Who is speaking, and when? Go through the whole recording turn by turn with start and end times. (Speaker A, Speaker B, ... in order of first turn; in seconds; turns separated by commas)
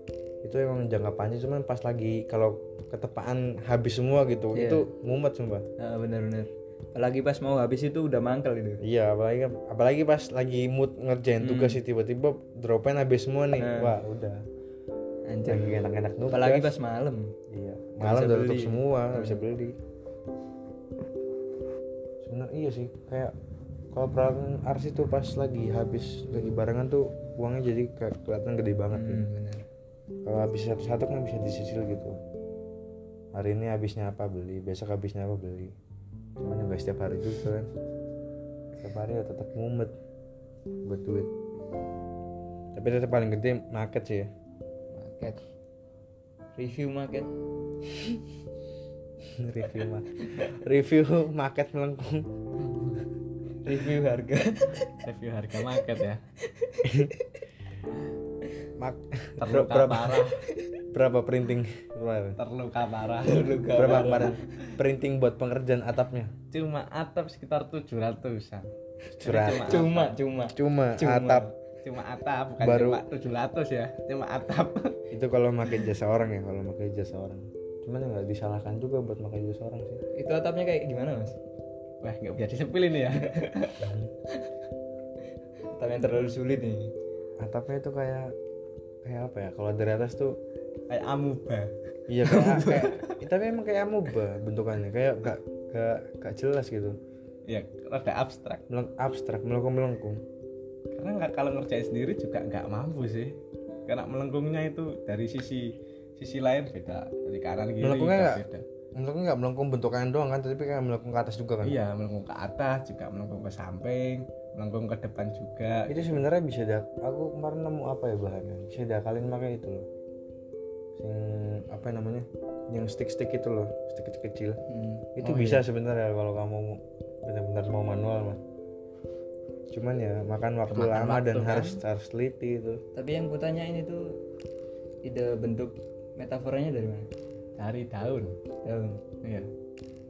Speaker A: 0.4-5.7, Speaker B: 4.5-4.8, Speaker B: 5.8-8.8, Speaker A: 8.8-14.4, Speaker B: 11.4-11.8, Speaker B: 13.6-14.0, Speaker B: 15.3-15.8, Speaker A: 15.4-16.7, Speaker B: 16.3-17.3, Speaker A: 17.5-19.8, Speaker B: 18.0-19.4, Speaker A: 22.2-23.3, Speaker A: 23.9-29.3, Speaker B: 28.9-29.6, Speaker A: 30.2-32.2, Speaker A: 33.3-35.8, Speaker A: 36.4-37.7, Speaker A: 38.8-39.9, Speaker A: 40.8-41.3, Speaker A: 42.7-44.3, Speaker B: 44.9-45.4, Speaker B: 46.5-47.3, Speaker A: 49.2-52.3, Speaker C: 52.6-53.0, Speaker B: 53.6-55.0, Speaker C: 55.0-56.2, Speaker B: 56.4-57.4, Speaker A: 56.8-57.1, Speaker A: 58.8-60.3, Speaker C: 59.4-60.4, Speaker A: 60.9-62.4, Speaker C: 62.4-64.2, Speaker B: 63.2-64.4, Speaker A: 63.7-66.3, Speaker C: 66.5-68.7, Speaker A: 69.1-69.8, Speaker C: 69.2-70.1, Speaker B: 69.6-71.5, Speaker A: 70.5-71.5, Speaker C: 71.8-75.0, Speaker A: 72.6-73.0, Speaker A: 75.1-80.0, Speaker B: 80.1-81.4, Speaker C: 82.0-83.8, Speaker B: 83.3-83.6, Speaker A: 83.8-84.1, Speaker B: 85.7-86.9, Speaker A: 87.4-88.3, Speaker A: 89.0-90.4, Speaker C: 90.9-93.2, Speaker A: 92.1-97.0, Speaker C: 97.5-98.6, Speaker A: 98.7-100.2, Speaker C: 100.9-103.3, Speaker C: 103.9-108.6, Speaker A: 107.8-108.4, Speaker A: 109.0-111.8, Speaker C: 111.6-116.2, Speaker A: 115.9-119.9, Speaker A: 121.0-124.6, Speaker B: 124.7-125.1, Speaker A: 125.2-128.4, Speaker C: 125.2-125.6, Speaker A: 129.7-132.8, Speaker C: 130.7-131.8, Speaker B: 132.9-134.2, Speaker B: 135.0-137.1, Speaker C: 137.6-138.4, Speaker B: 138.6-139.0, Speaker C: 139.2-139.5